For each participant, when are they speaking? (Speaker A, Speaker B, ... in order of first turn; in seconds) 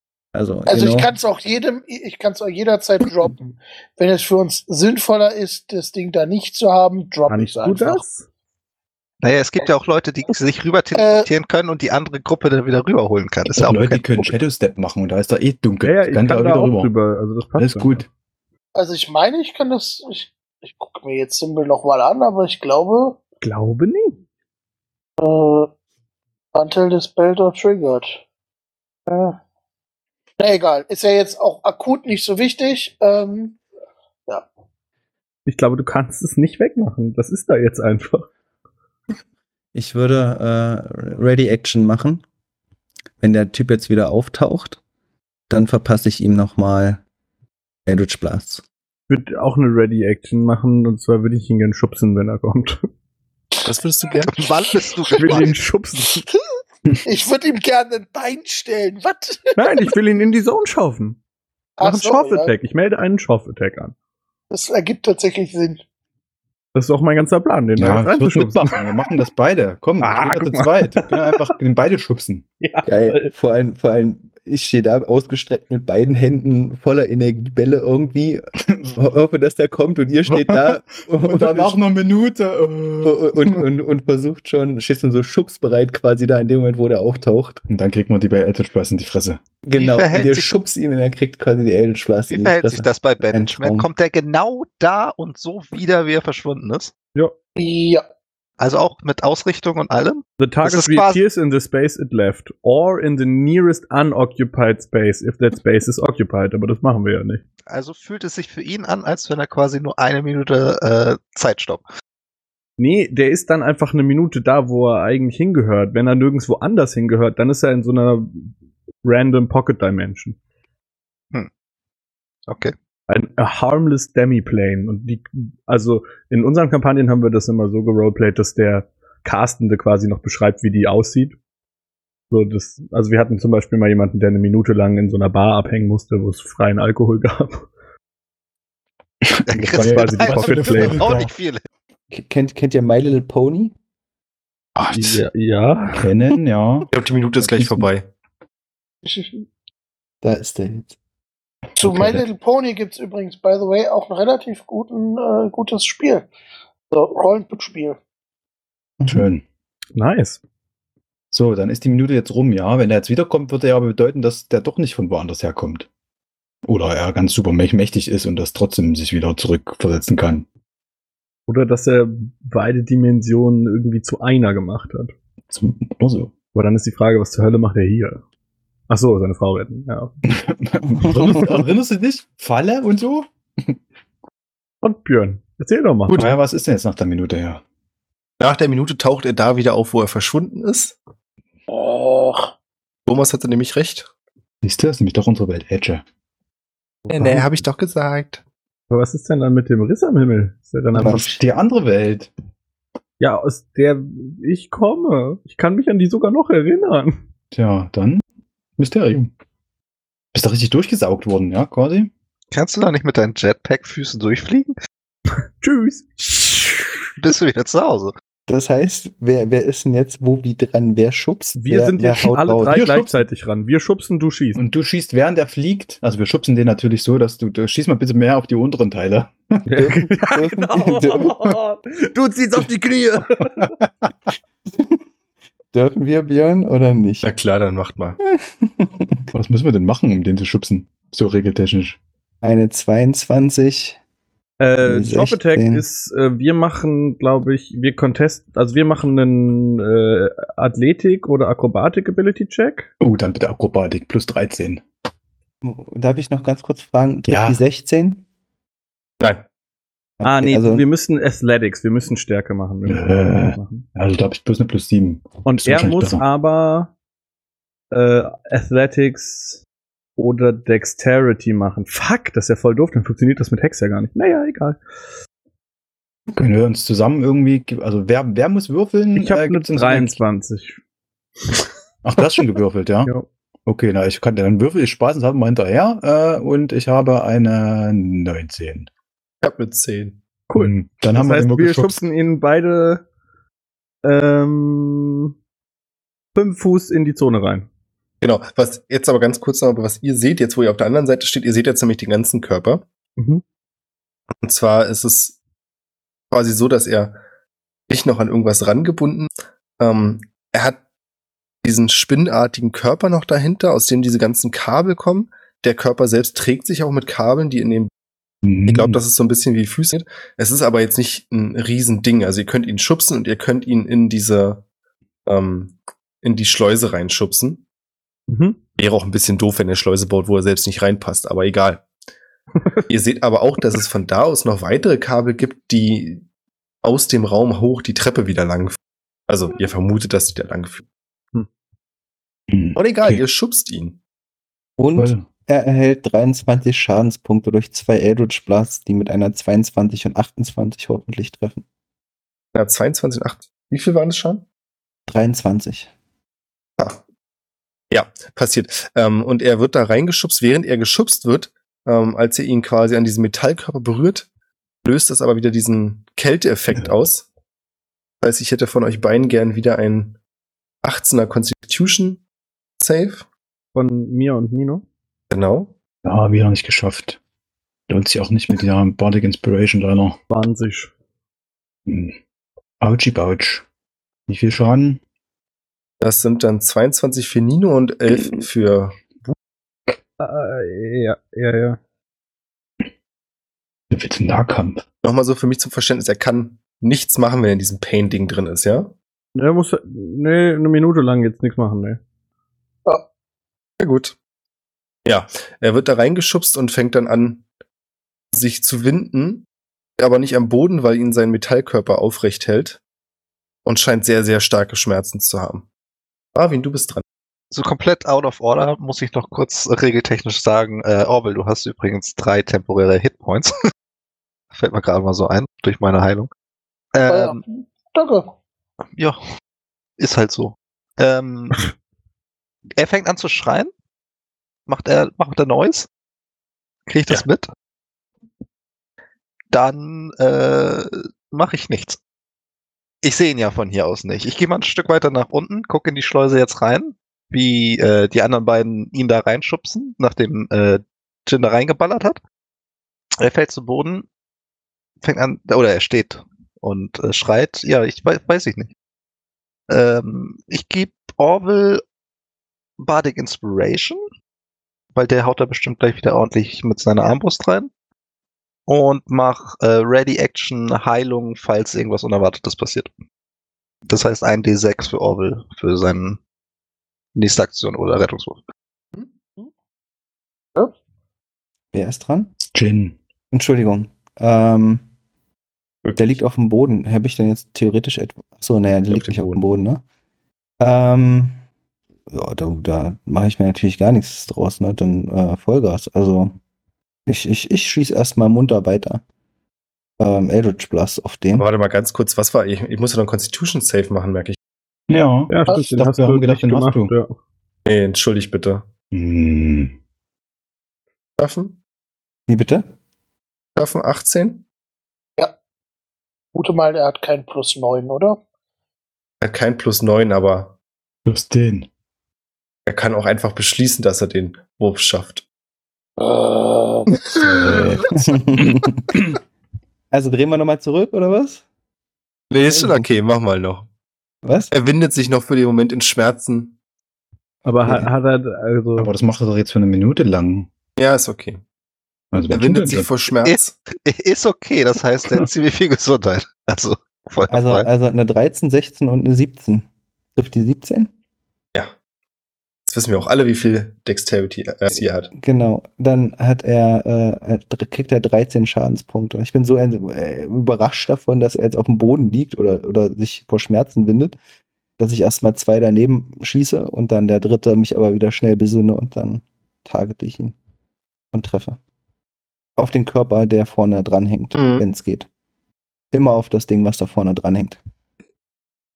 Speaker A: 0.3-1.1, 39.7-42.2, 43.2-44.8, 45.5-47.0, 47.9-48.6, 72.9-81.8, 83.0-87.6, 89.6-93.9, 142.1-143.7, 150.2-150.9, 201.0-201.4, 218.5-222.9, 229.8-231.4, 235.7-237.3, 238.3-239.2, 242.4-244.0, 244.8-245.8, 255.6-258.2, 260.2-260.9, 344.8-351.6, 355.1-355.9, 481.7-482.4, 483.3-484.9, 485.9-489.8, 490.6-491.4, 492.1-496.4, 497.1-499.0, 500.0-501.5, 512.3-512.7, 528.1-528.9, 529.9-531.4, 532.5-532.9, 534.2-534.5, 547.3-550.9, 555.1-564.2, 564.8-570.4, 571.1-571.6, 572.6-575.1, 575.9-577.6
Speaker B: 0.7-8.0, 10.9-11.3, 18.7-23.2, 25.2-25.7, 26.6-28.2, 29.1-29.4, 30.4-33.6, 57.0-59.9, 61.8-62.5, 64.5-65.8, 97.5-98.0, 149.1-149.4, 151.8-156.3, 156.9-158.0, 191.7-192.5, 427.1-428.3, 516.3-518.2, 526.0-527.0
Speaker C: 7.3-8.3, 15.8-18.0, 23.4-24.2, 35.5-38.3, 49.1-52.9, 55.2-56.3, 59.6-61.2, 61.8-63.9, 66.7-69.0, 70.0-71.5, 72.6-73.3, 100.4-107.4, 112.8-118.5, 119.0-120.4, 123.1-131.4, 132.3-137.7, 139.6-141.1, 144.9-146.1, 159.9-160.4, 171.5-175.1, 176.5-178.2, 178.9-180.1, 184.8-186.2, 198.9-201.3, 203.2-207.2, 215.6-217.1, 221.6-224.6, 229.7-233.7, 244.6-252.9, 260.2-263.9, 265.4-266.9, 267.9-269.6, 270.2-274.8, 279.2-280.8, 290.5-293.0, 294.0-295.3, 296.4-297.7, 328.3-328.6, 373.7-374.8, 380.3-380.9, 390.2-391.8, 399.4-402.0, 505.3-507.2, 537.5-538.9
Speaker D: 9.2-14.4, 54.2-55.6, 89.8-90.5, 92.3-96.9, 98.6-101.2, 107.7-111.8, 122.5-122.7, 139.5-141.6, 212.5-214.7, 217.2-218.1, 417.5-423.5, 424.5-426.3, 426.9-427.4, 430.0-431.6, 432.8-433.7, 434.7-435.9, 436.9-437.5, 439.5-442.0, 443.0-452.2, 453.2-454.1, 455.0-458.7, 459.7-461.8, 462.8-464.0, 464.9-467.7, 468.7-472.9, 473.9-476.2, 477.1-478.4, 543.2-547.7
Speaker E: 13.5-16.9, 17.6-18.1, 67.8-72.5, 78.6-79.0, 80.3-83.6, 87.7-89.4, 139.2-141.3, 144.8-145.2, 145.9-147.9, 151.8-152.2, 159.0-159.4, 161.3-165.9, 166.6-170.5, 175.5-176.3, 180.2-183.8, 186.1-187.6, 194.6-196.0, 197.1-197.4, 201.0-202.3, 207.5-208.2, 208.8-209.3, 210.3-212.1, 222.8-223.1, 224.6-229.7, 233.6-233.9, 239.3-242.0, 253.0-254.8, 257.3-257.6, 262.9-266.2, 276.3-280.2, 282.0-283.1, 283.7-288.9, 290.6-292.0, 318.4-319.0, 342.5-343.2, 344.9-345.3, 376.0-377.2, 377.9-380.2, 381.9-382.2, 382.8-383.6, 384.3-385.0, 393.9-394.8, 482.4-483.0, 504.9-506.9, 508.9-509.7, 521.0-521.7, 527.1-529.2, 538.8-540.5, 542.1-542.9
Speaker F: 53.7-54.5, 146.9-148.1, 186.1-186.4, 188.4-190.9, 193.1-194.1, 197.1-198.4, 237.2-238.2, 259.2-259.4, 289.4-290.2, 298.2-302.8, 304.4-305.4, 306.3-307.2, 307.9-310.8, 311.6-317.9, 318.7-324.6, 325.3-327.6, 328.8-331.8, 332.9-336.3, 336.8-338.8, 339.3-340.8, 342.7-344.0, 352.5-354.4, 357.9-364.3, 364.8-367.3, 368.2-370.2, 370.8-372.2, 372.8-373.2, 375.3-375.7, 386.0-389.0, 395.0-398.9, 403.8-404.2, 405.1-407.4, 408.3-409.4, 410.0-412.8, 413.6-415.7, 416.4-417.0, 485.8-486.2, 488.9-489.3, 501.4-504.4, 507.7-508.7, 511.2-511.6, 513.5-514.5, 519.2-520.5, 522.7-525.2, 532.3-533.7, 534.5-536.5, 540.8-541.4, 542.3-543.6, 552.7-555.1, 574.4-574.6